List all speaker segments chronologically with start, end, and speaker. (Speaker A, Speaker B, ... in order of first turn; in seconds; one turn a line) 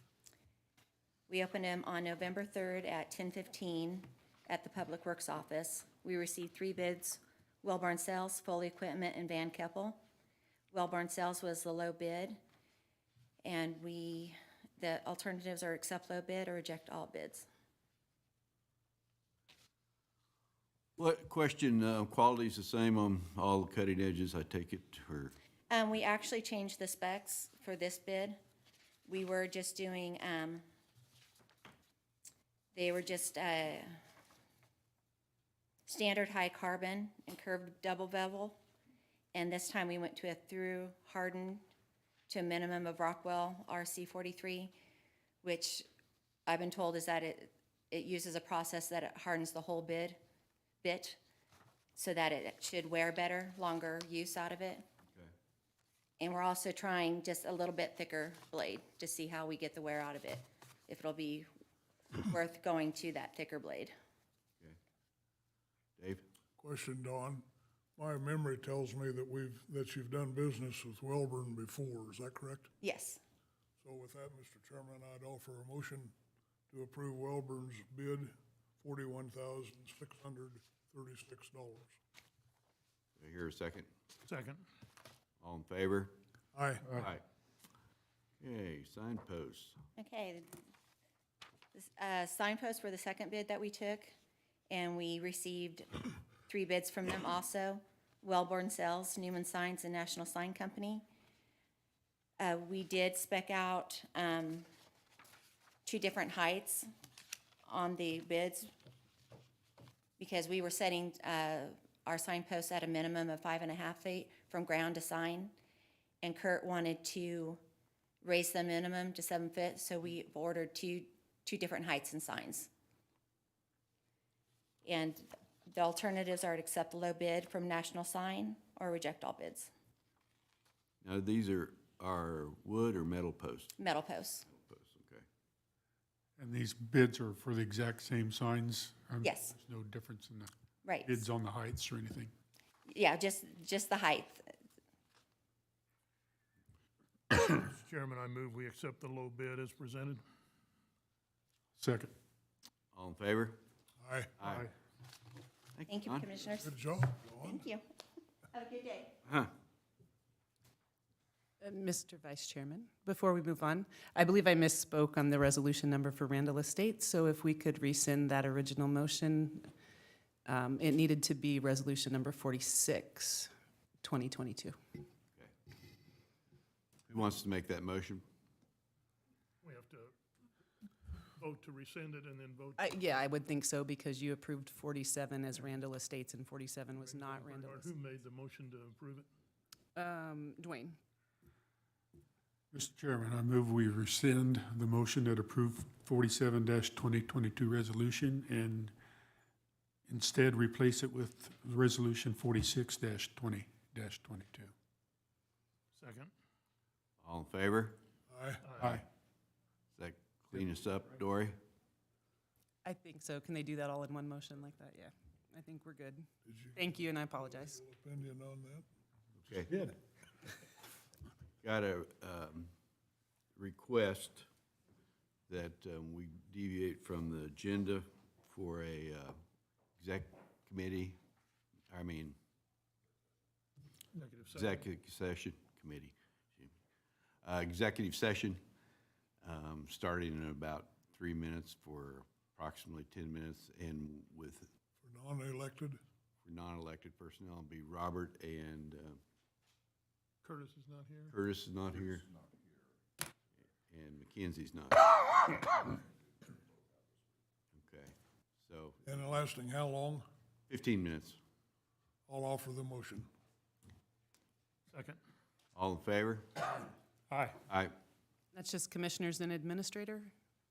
Speaker A: 1.3-10.0
Speaker A: 10.7-12.4
Speaker A: 13.4-17.5
Speaker B: 21.0-25.3
Speaker A: 25.7-28.4
Speaker A: 29.1-30.6
Speaker A: 32.7-34.0
Speaker A: 35.9-38.6
Speaker A: 39.3-41.6
Speaker A: 42.3-44.7
Speaker A: 45.4-45.9
Speaker A: 46.5-50.2
Speaker A: 50.8-51.2
Speaker A: 52.0-54.8
Speaker A: 56.2-61.5
Speaker A: 62.1-63.9
Speaker B: 66.0-66.2
Speaker C: 66.6-67.4
Speaker C: 68.0-72.7
Speaker A: 72.8-73.2
Speaker C: 73.8-76.1
Speaker C: 76.7-82.0
Speaker B: 83.2-83.9
Speaker D: 84.3-84.6
Speaker B: 85.4-86.1
Speaker C: 86.5-86.9
Speaker B: 87.0-87.2
Speaker B: 88.4-89.8
Speaker A: 90.0-90.6
Speaker A: 91.7-94.1
Speaker A: 94.7-95.9
Speaker A: 96.5-101.0
Speaker A: 102.4-104.7
Speaker A: 105.8-106.9
Speaker A: 107.7-108.7
Speaker A: 110.2-115.5
Speaker A: 116.2-117.6
Speaker A: 118.2-122.7
Speaker A: 124.8-129.7
Speaker B: 131.0-133.7
Speaker A: 133.8-134.4
Speaker B: 134.5-135.2
Speaker E: 136.4-140.5
Speaker A: 139.2-139.5
Speaker A: 140.8-141.2
Speaker E: 141.0-142.3
Speaker A: 142.9-144.5
Speaker D: 147.3-150.2
Speaker E: 151.8-152.1
Speaker B: 152.9-153.6
Speaker C: 154.0-154.4
Speaker B: 154.4-154.7
Speaker E: 154.4-154.7
Speaker B: 155.8-156.2
Speaker A: 155.9-156.7
Speaker C: 156.6-157.6
Speaker A: 157.4-157.8
Speaker A: 158.5-159.1
Speaker B: 159.2-159.5
Speaker F: 161.6-169.7
Speaker F: 170.4-173.5
Speaker F: 174.0-174.8
Speaker B: 177.1-178.2
Speaker D: 179.6-180.1
Speaker D: 181.4-182.8
Speaker F: 182.8-187.9
Speaker D: 187.0-189.3
Speaker F: 189.9-191.0
Speaker E: 192.7-198.9
Speaker E: 200.1-204.7
Speaker D: 205.9-206.3
Speaker B: 207.2-208.0
Speaker C: 208.3-208.6
Speaker D: 208.6-209.0
Speaker E: 208.8-209.1
Speaker B: 210.0-211.6
Speaker F: 212.8-217.8
Speaker C: 216.4-218.8
Speaker B: 219.4-219.8
Speaker B: 221.6-222.7
Speaker B: 223.6-224.5
Speaker B: 225.5-229.3
Speaker B: 230.0-231.2
Speaker B: 231.9-232.4
Speaker D: 234.1-234.8
Speaker B: 234.5-236.7
Speaker B: 237.4-238.6
Speaker B: 239.4-244.7
Speaker C: 245.0-246.0
Speaker B: 246.4-249.2
Speaker D: 250.4-251.3
Speaker B: 251.3-252.3
Speaker B: 253.9-255.9
Speaker B: 257.7-259.0
Speaker C: 259.0-260.2
Speaker B: 260.7-261.4
Speaker C: 262.3-263.3
Speaker D: 264.9-265.2
Speaker B: 265.7-266.9
Speaker D: 267.3-267.6
Speaker B: 267.7-267.9
Speaker F: 268.5-270.3